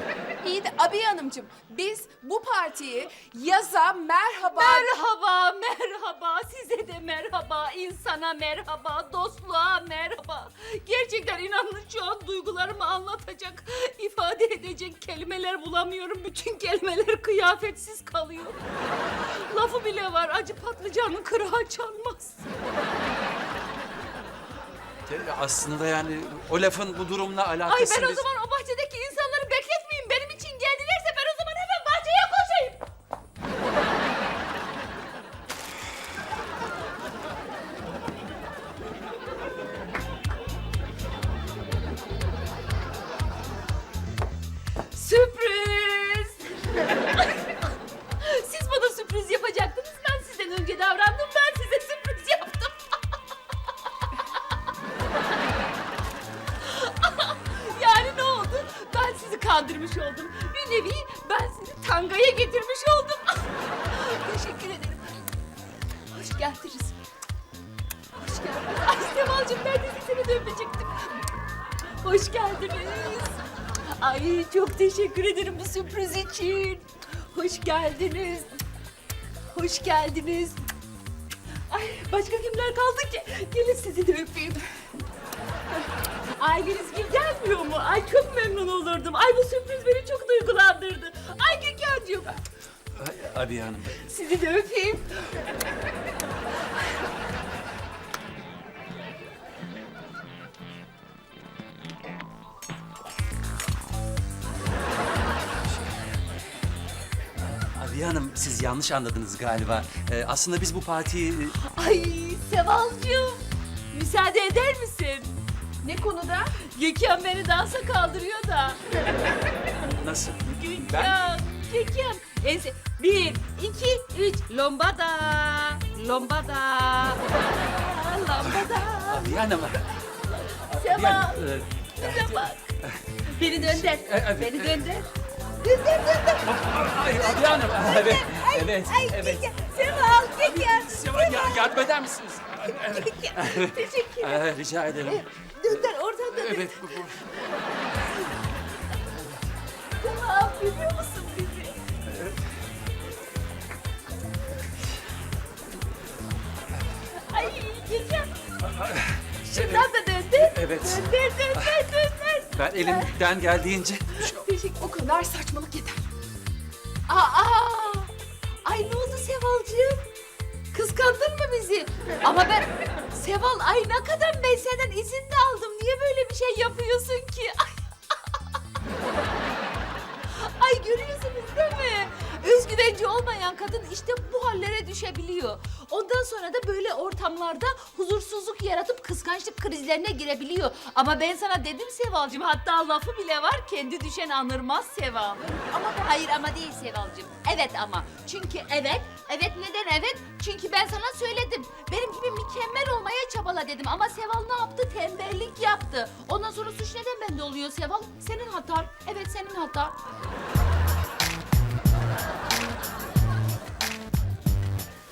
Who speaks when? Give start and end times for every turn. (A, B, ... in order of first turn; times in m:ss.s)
0:00.4-0:04.9 A
0:04.6-0:18.6 B
0:19.2-0:22.4 B
0:25.1-0:28.2 C
0:27.6-0:32.8 B
0:44.9-0:47.5 B
0:48.2-0:52.9 B
0:56.6-1:05.1 B
1:06.1-1:07.0 B
1:08.2-1:11.2 B
1:12.0-1:18.6 B
1:19.5-1:20.6 B
1:21.7-1:24.7 B
1:26.4-1:32.4 B
1:33.0-1:34.0 C
1:34.0-1:35.5 B
1:47.5-1:51.6 C
1:51.6-1:55.4 B
1:55.8-1:56.5 A
1:56.6-1:58.8 B
1:59.8-2:01.1 C
2:00.5-2:09.6 B
2:09.0-2:09.9 C
2:10.3-2:15.1 B
2:10.7-2:14.8 C
2:15.6-2:21.8 B
2:16.4-2:19.5 C
2:20.4-2:27.2 C
2:22.6-2:24.5 B
2:25.0-2:27.2 B
2:30.0-2:31.8 B
2:37.1-2:38.3 B
2:38.6-2:41.8 C
2:39.4-2:43.2 B
2:42.5-2:44.4 C
2:44.2-2:44.8 B
2:44.7-2:46.0 A
2:47.1-2:48.1 B
2:48.6-2:50.1 B
2:50.7-2:57.8 B
3:00.3-3:29.9 B